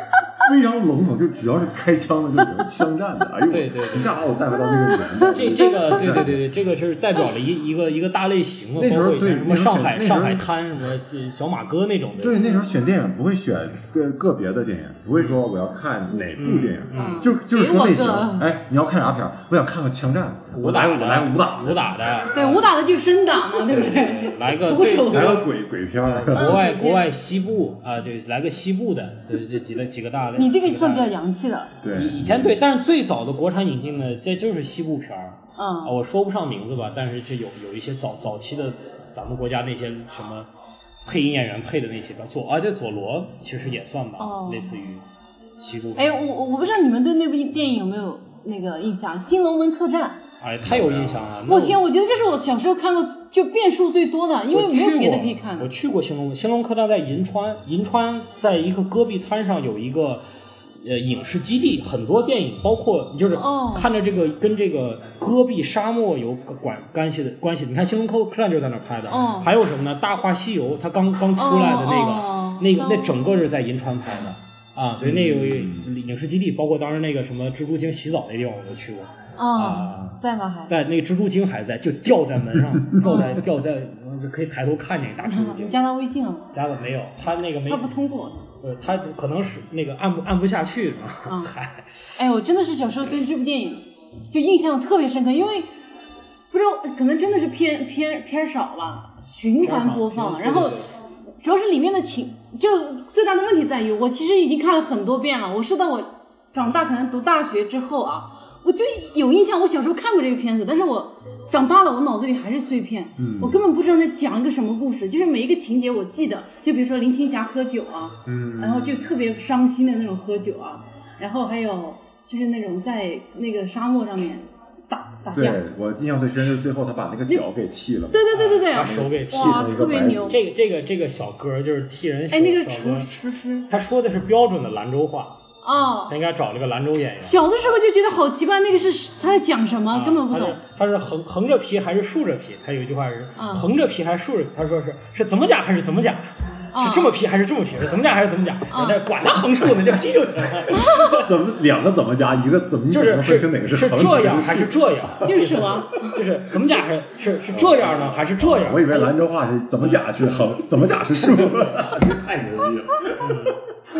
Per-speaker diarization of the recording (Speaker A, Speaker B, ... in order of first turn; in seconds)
Speaker A: 0.4-6.4, 8.8-10.5, 12.2-22.2, 25.0-26.6, 31.8-32.6, 50.6-51.2, 75.0-75.9, 113.2-113.6, 118.2-119.1, 125.3-130.4, 150.9-155.3, 157.5-163.4
Speaker B: 3.5-4.2, 5.3-12.5, 15.1-15.4, 16.3-17.3, 20.5-22.7, 23.5-25.5, 26.1-31.1, 31.9-40.5, 41.0-45.0, 45.6-46.3, 50.4-51.8, 54.5-60.2, 60.8-85.8, 86.5-87.9, 88.6-92.1, 99.6-100.9, 128.3-133.1, 133.7-135.4, 136.1-137.5, 139.9-146.2, 146.8-151.3, 152.9-159.2, 159.8-160.5, 161.2-162.2, 163.2-163.6
Speaker C: 4.5-5.9, 16.9-18.4, 22.3-25.4, 26.3-27.1, 30.4-31.7, 35.6-35.9, 44.2-44.8, 46.0-50.2, 51.5-55.7, 63.3-63.9, 69.1-69.5, 71.4-73.4, 79.4-80.7, 83.0-83.4, 85.2-86.5, 87.7-88.4, 91.3-91.5, 92.2-95.7, 96.5-125.6, 128.1-130.4, 132.3-133.7, 135.6-136.2, 137.2-140.6, 143.3-143.7, 146.7-147.1, 148.7-149.0, 150.8-151.0, 155.2-156.2